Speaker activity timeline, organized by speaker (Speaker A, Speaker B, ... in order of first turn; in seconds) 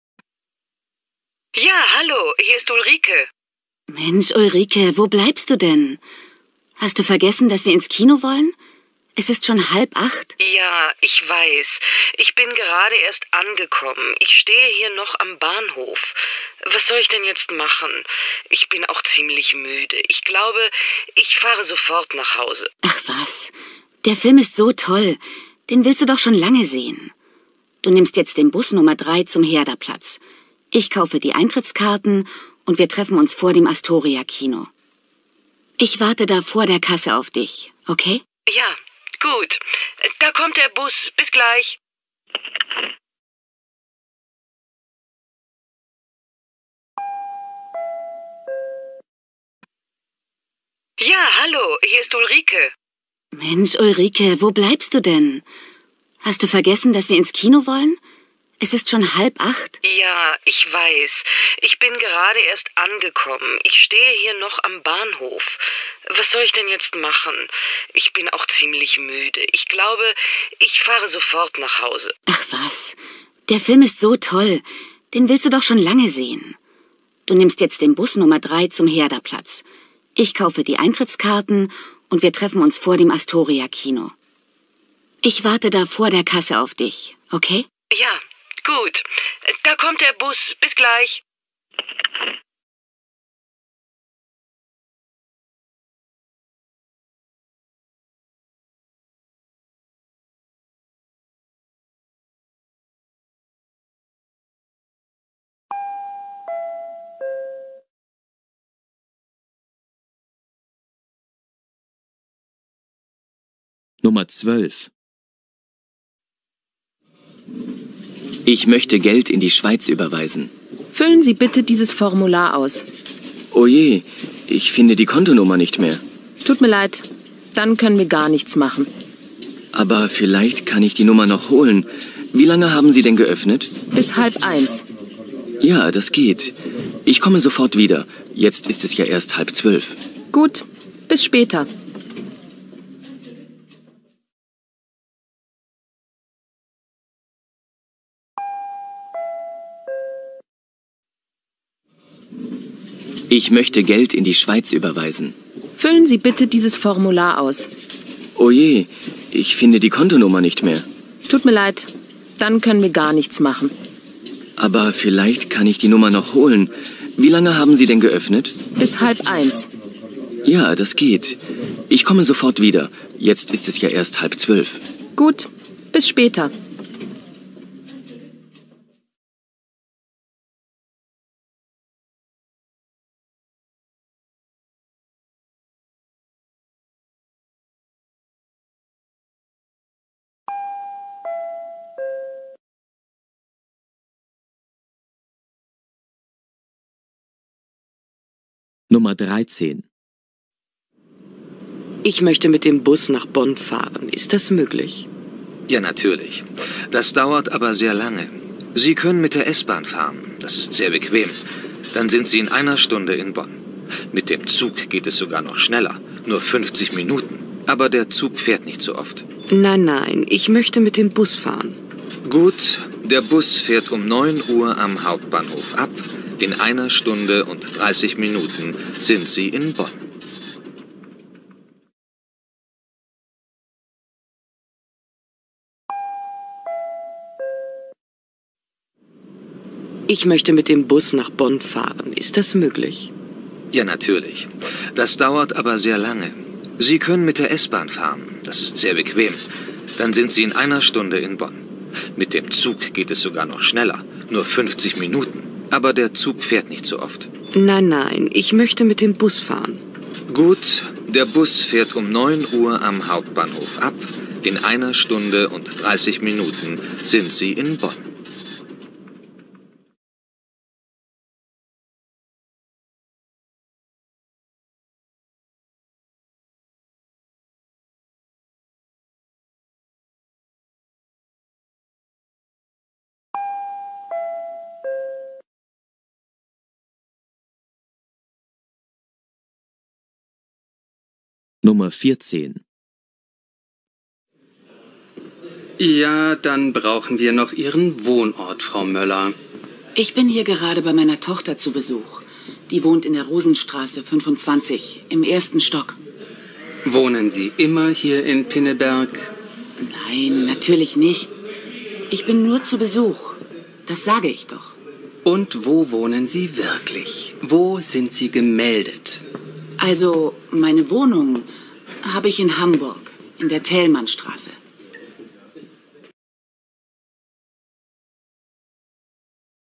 Speaker A: 1.5-3.3, 10.4-22.7, 38.5-41.8, 51.0-52.7, 59.8-72.2, 87.9-91.2, 202.0-205.1, 219.5-221.8, 240.1-243.1, 257.5-259.8
Speaker B: 3.9-6.0, 6.8-8.6, 9.2-10.3, 22.8-27.1, 27.8-30.2, 30.7-34.7, 35.8-38.2, 53.3-55.4, 56.2-58.0, 58.6-59.8, 72.3-76.6, 77.3-79.6, 80.2-84.1, 85.2-87.7, 299.9-306.0, 309.8-311.3, 312.1-314.8, 319.8-321.5, 322.0-324.6
Speaker C: 114.0-114.9, 198.9-199.8, 291.6-292.6
Speaker D: 118.4-120.5, 123.5-126.0, 129.7-133.7, 135.6-140.0, 153.3-155.3, 158.3-160.8, 164.6-168.6, 170.4-171.4, 171.9-174.8
Speaker E: 120.9-122.8, 126.4-128.9, 133.9-134.8, 140.3-141.7, 155.8-157.7, 161.3-163.7, 168.8-169.7, 175.2-176.5
Speaker F: 205.7-211.4, 211.9-213.6, 214.1-219.2, 222.2-230.1, 243.7-249.4, 250.0-251.6, 252.1-257.3, 260.3-268.1
Speaker G: 295.8-299.4, 306.8-309.3, 315.2-319.2